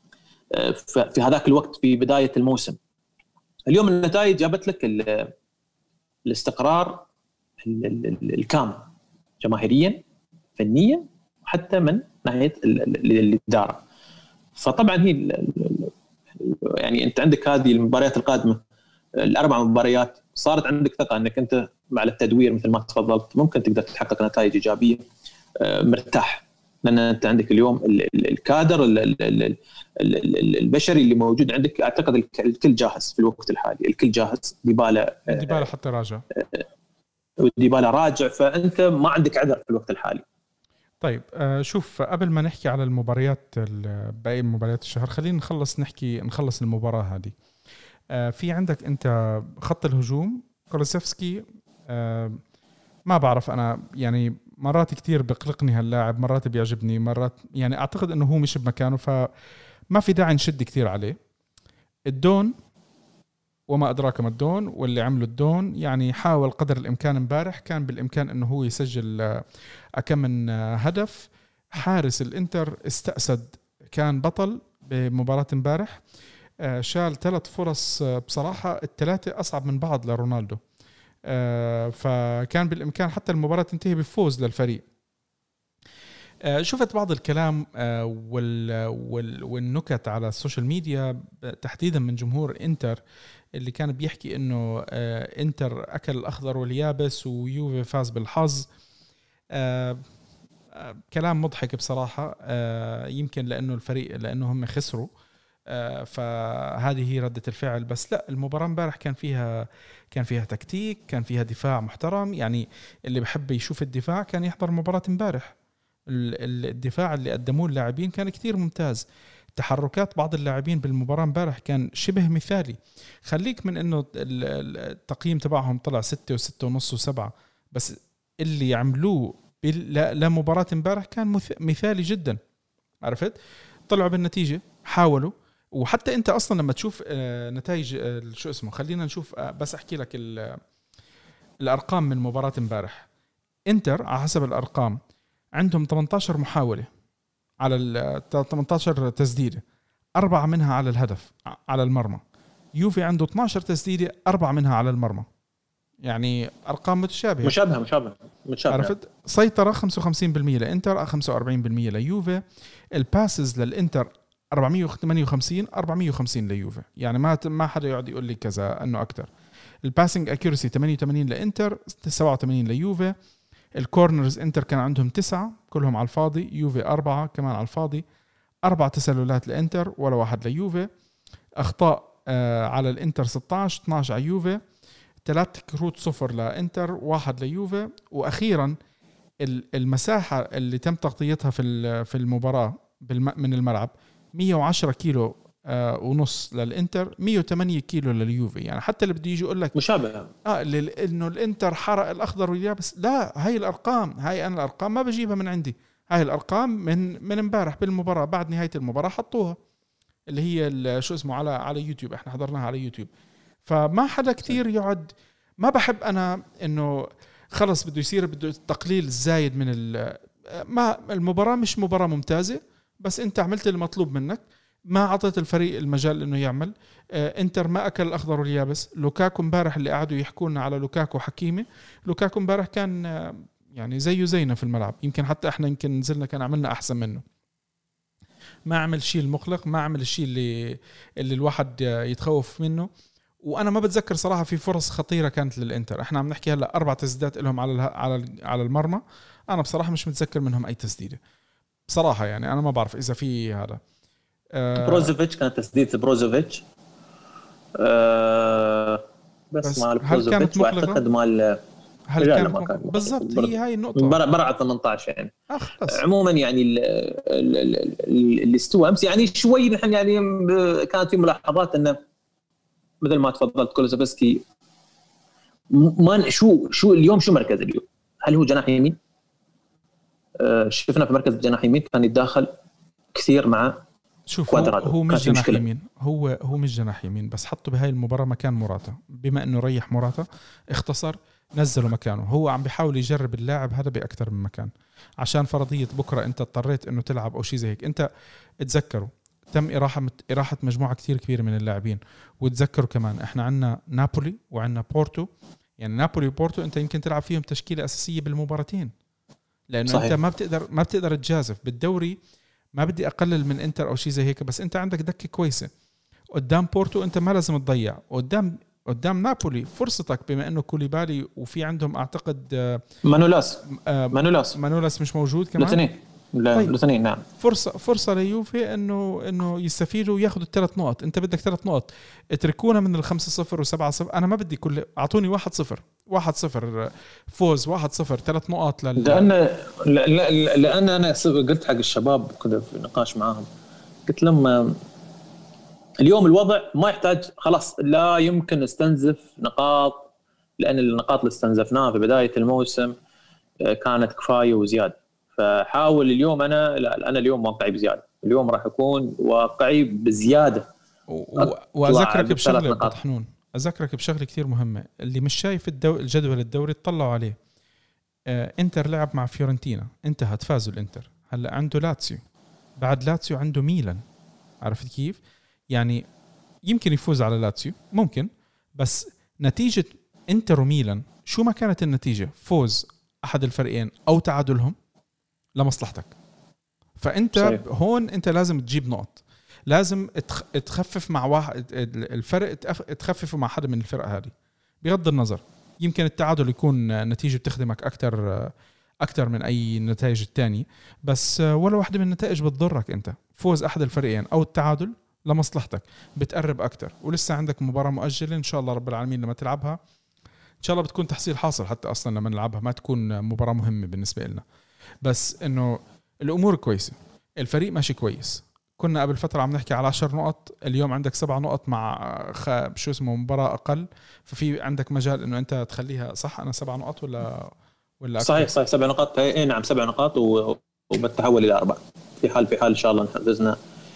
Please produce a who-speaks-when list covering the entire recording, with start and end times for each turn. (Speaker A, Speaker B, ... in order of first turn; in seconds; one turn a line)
Speaker A: 0.5-2.8
Speaker A: 3.7-5.3
Speaker A: 6.2-7.0
Speaker A: 7.6-8.8
Speaker A: 9.4-10.0
Speaker A: 10.6-13.8
Speaker A: 14.6-18.6
Speaker A: 19.2-25.0
Speaker A: 25.6-35.7
Speaker B: 35.3-36.2
Speaker A: 36.3-36.6
Speaker A: 37.4-40.2
Speaker B: 41.0-47.3
Speaker B: 48.1-52.4
Speaker B: 53.1-59.2
Speaker B: 59.9-61.1
Speaker B: 62.1-62.5
Speaker B: 63.7-69.4
Speaker B: 70.0-76.0
Speaker B: 76.6-80.6
Speaker B: 81.3-84.8
Speaker B: 86.5-93.0
Speaker B: 93.6-98.7
Speaker B: 99.5-100.0
Speaker B: 100.7-105.1
Speaker B: 105.7-115.5
Speaker B: 116.1-132.4
Speaker B: 133.0-133.3
Speaker B: 133.9-140.6
Speaker B: 141.6-143.1
Speaker B: 143.7-145.0
Speaker B: 145.6-146.9
Speaker B: 147.6-149.6
Speaker B: 150.2-152.2
Speaker B: 152.8-155.3
Speaker B: 156.0-157.6
Speaker A: 157.4-158.9
Speaker B: 158.7-162.4
Speaker B: 162.9-169.3
Speaker B: 169.8-173.1
Speaker B: 173.8-178.0
Speaker B: 178.6-180.9
Speaker B: 181.6-184.6
Speaker B: 185.2-188.8
Speaker B: 189.4-199.7
Speaker A: 199.7-200.3
Speaker B: 200.4-209.6
Speaker B: 210.3-213.1
Speaker B: 213.6-237.2
Speaker B: 238.7-242.9
Speaker B: 243.4-251.2
Speaker B: 251.9-253.8
Speaker B: 254.5-255.1
Speaker A: 254.8-256.6
Speaker A: 257.8-261.6
Speaker B: 259.6-261.0
Speaker B: 262.1-264.2
Speaker A: 262.2-265.3
Speaker B: 265.5-266.0
Speaker A: 265.9-272.0
Speaker A: 273.0-274.4
Speaker A: 275.7-279.0
Speaker A: 280.4-282.5
Speaker A: 283.1-283.8
Speaker B: 284.3-298.0
Speaker A: 284.5-285.6
Speaker B: 298.6-305.3
Speaker B: 305.8-308.9
Speaker B: 309.7-312.2
Speaker A: 309.9-310.1
Speaker B: 312.7-315.7
Speaker B: 316.3-322.8
Speaker A: 323.0-324.6
Speaker B: 323.7-325.8
Speaker A: 325.6-327.2
Speaker B: 327.4-339.3
Speaker A: 339.0-343.5
Speaker A: 344.1-344.8
Speaker A: 346.0-350.1
Speaker A: 350.6-352.9
Speaker A: 353.6-360.7
Speaker B: 361.1-367.4
Speaker A: 361.4-362.9
Speaker B: 368.3-372.2
Speaker B: 372.8-374.0
Speaker B: 374.6-375.2
Speaker B: 375.7-376.0
Speaker B: 376.7-384.8
Speaker B: 385.6-386.1
Speaker B: 387.0-409.8
Speaker A: 387.4-387.6
Speaker B: 410.6-414.4
Speaker B: 415.0-428.5
Speaker A: 428.2-433.6